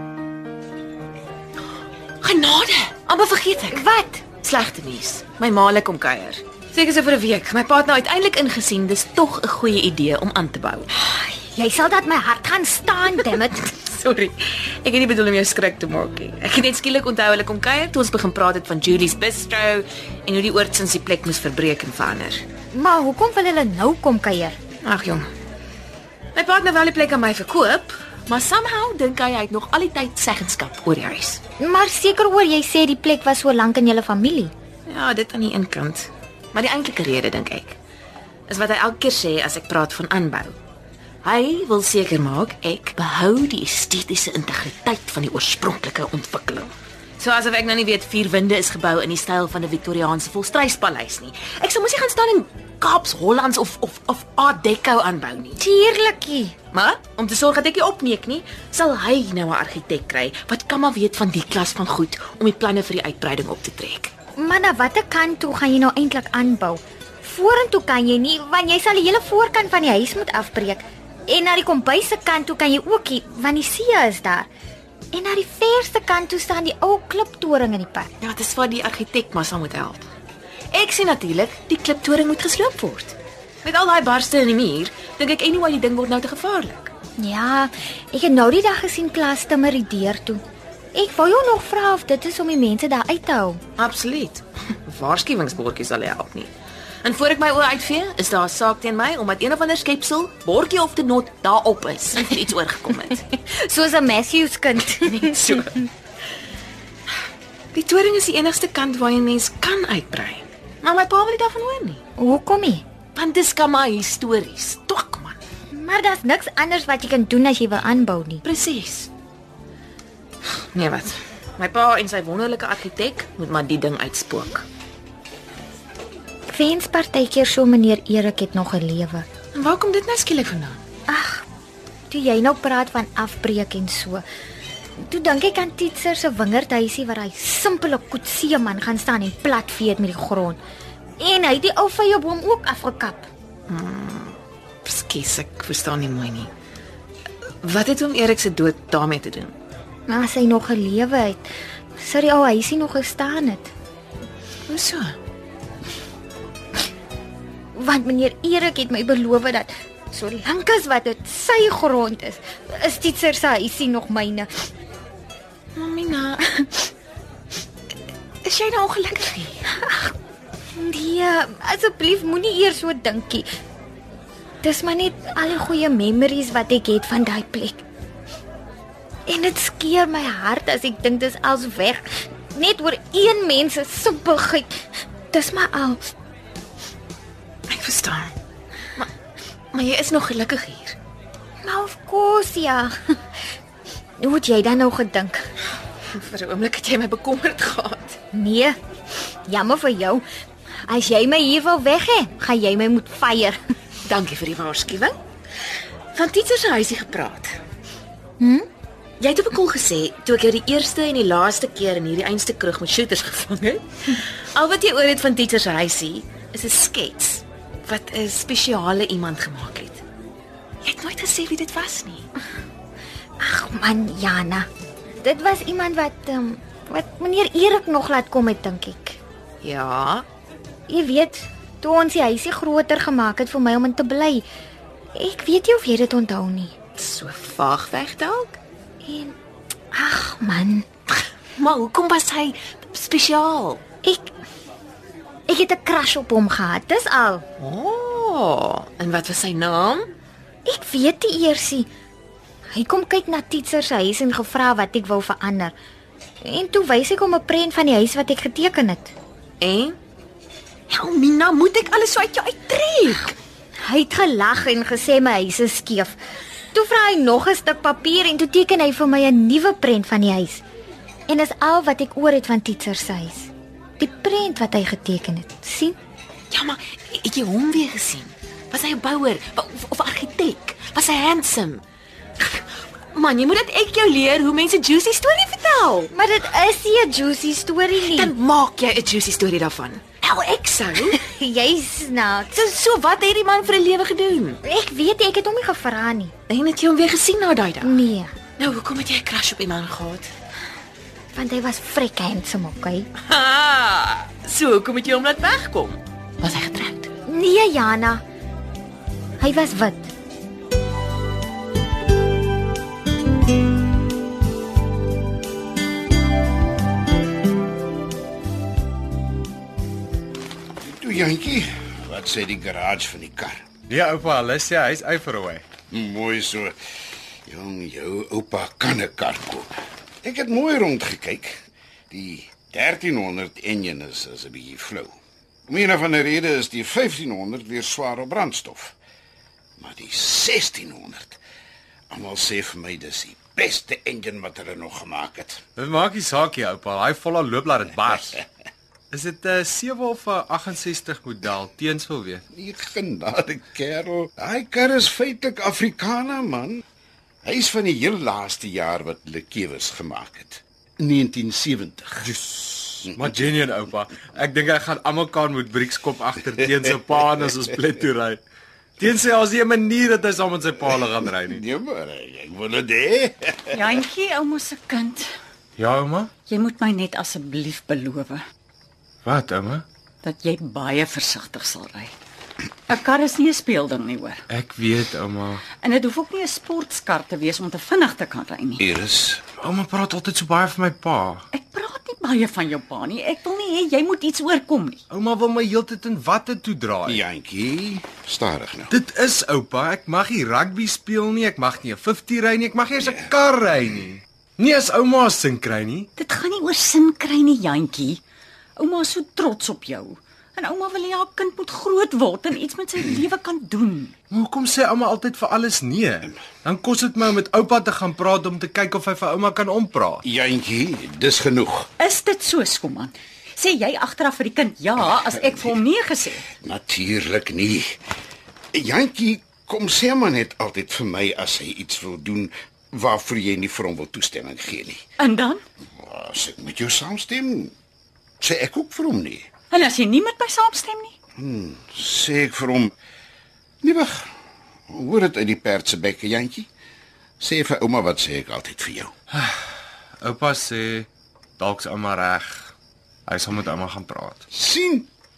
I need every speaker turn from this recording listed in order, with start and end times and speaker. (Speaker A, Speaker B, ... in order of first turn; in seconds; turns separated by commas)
Speaker A: 2.2-10.9, Speaker B: 3.7-4.2, Speaker B: 11.0-13.6, Speaker A: 13.2-22.4, Speaker B: 22.7-24.6, Speaker A: 24.8-25.3, Speaker A: 26.3-31.4, Speaker B: 31.6-34.5, Speaker A: 34.9-37.8, Speaker A: 38.5-40.6, Speaker A: 41.2-55.6, Speaker B: 55.6-56.5, Speaker A: 56.7-64.1, Speaker B: 64.4-74.5, Speaker B: 75.1-78.1, Speaker A: 78.2-80.1, Speaker A: 80.7-86.9, Speaker B: 87.2-90.4, Speaker B: 90.9-93.6, Speaker A: 93.8-96.5, Speaker A: 97.0-103.3, Speaker B: 103.5-105.8, Speaker A: 105.1-105.7, Speaker A: 107.7-112.0, Speaker B: 112.2-112.8, Speaker A: 113.1-115.4, Speaker B: 115.7-118.4, Speaker A: 118.4-119.1, Speaker A: 120.5-124.7, Speaker B: 126.5-129.2, Speaker A: 129.5-130.8, Speaker B: 131.1-131.4, Speaker B: 132.1-134.2, Speaker B: 135.0-140.6, Speaker B: 141.2-143.3, Speaker A: 143.7-146.5, Speaker A: 147.6-149.5, Speaker B: 150.1-153.7, Speaker A: 154.7-155.2, Speaker B: 157.7-164.7, Speaker A: 165.7-166.6, Speaker A: 168.4-169.6, Speaker B: 169.7-170.1, Speaker B: 170.8-173.5, Speaker B: 174.6-177.8, Speaker B: 179.3-186.1, Speaker A: 187.7-188.3, Speaker A: 189.7-191.0, Speaker B: 191.6-192.9, Speaker B: 194.2-195.4, Speaker A: 196.1-198.2, Speaker B: 198.3-198.8, Speaker B: 199.5-200.2, Speaker B: 200.9-203.6, Speaker A: 204.0-205.2, Speaker A: 206.1-207.6, Speaker B: 208.4-208.7, Speaker A: 209.2-220.0, Speaker A: 220.8-222.3, Speaker B: 223.4-224.7, Speaker B: 225.2-229.2, Speaker A: 229.6-230.2, Speaker B: 230.9-234.4, Speaker B: 235.1-236.7, Speaker A: 236.9-238.6, Speaker B: 239.0-239.3, Speaker B: 239.9-240.9, Speaker A: 241.1-243.8, Speaker B: 244.0-244.3, Speaker B: 245.5-247.4, Speaker A: 247.6-250.1, Speaker B: 250.6-251.9, Speaker B: 252.7-255.7, Speaker B: 256.4-259.1, Speaker A: 259.6-259.9, Speaker A: 260.9-263.4, Speaker B: 263.8-266.1, Speaker B: 266.7-270.6, Speaker B: 271.3-275.9, Speaker A: 276.5-281.8, Speaker A: 282.4-286.1, Speaker B: 286.1-288.3, Speaker A: 287.9-291.2, Speaker B: 291.1-292.5, Speaker A: 292.5-294.6, Speaker B: 294.6-296.3, Speaker A: 296.5-300.3, Speaker B: 297.8-298.3, Speaker B: 301.3-303.1, Speaker A: 303.2-307.1, Speaker B: 307.3-308.2, Speaker B: 309.4-310.1, Speaker C: 320.8-323.6, Speaker D: 323.9-325.6, Speaker C: 325.9-326.7, Speaker C: 327.4-329.7, Speaker C: 330.2-335.1, Speaker C: 335.7-339.0, Speaker C: 339.8-341.4, Speaker C: 342.1-345.6, Speaker D: 345.8-348.4, Speaker D: 349.1-352.4, Speaker C: 352.5-356.8, Speaker C: 357.4-362.3, Speaker D: 362.2-368.4, Speaker D: 369.0-371.6, Speaker C: 371.4-374.0, Speaker E: 373.7-375.3, Speaker D: 375.8-376.3, Speaker E: 376.5-378.4, Speaker D: 379.2-379.8, Speaker E: 380.2-382.1, Speaker E: 382.9-384.4, Speaker D: 384.5-385.6, Speaker E: 385.8-388.8, Speaker C: 388.8-389.4, Speaker D: 389.6-391.4, Speaker E: 391.5-395.0, Speaker D: 395.1-397.2, Speaker C: 397.1-398.9, Speaker D: 398.9-406.1, Speaker E: 406.2-408.2, Speaker E: 408.8-414.1, Speaker D: 414.3-420.2, Speaker C: 420.2-421.9, Speaker E: 422.0-426.5, Speaker C: 426.5-428.0, Speaker C: 428.7-435.0, Speaker E: 435.2-435.6, Speaker C: 436.0-437.7, Speaker C: 438.4-439.5, Speaker E: 439.7-441.1, Speaker C: 441.4-442.9, Speaker C: 443.8-444.3, Speaker C: 444.9-446.7, Speaker C: 447.4-449.1, Speaker D: 450.2-452.7, Speaker D: 453.3-454.4, Speaker C: 454.5-455.1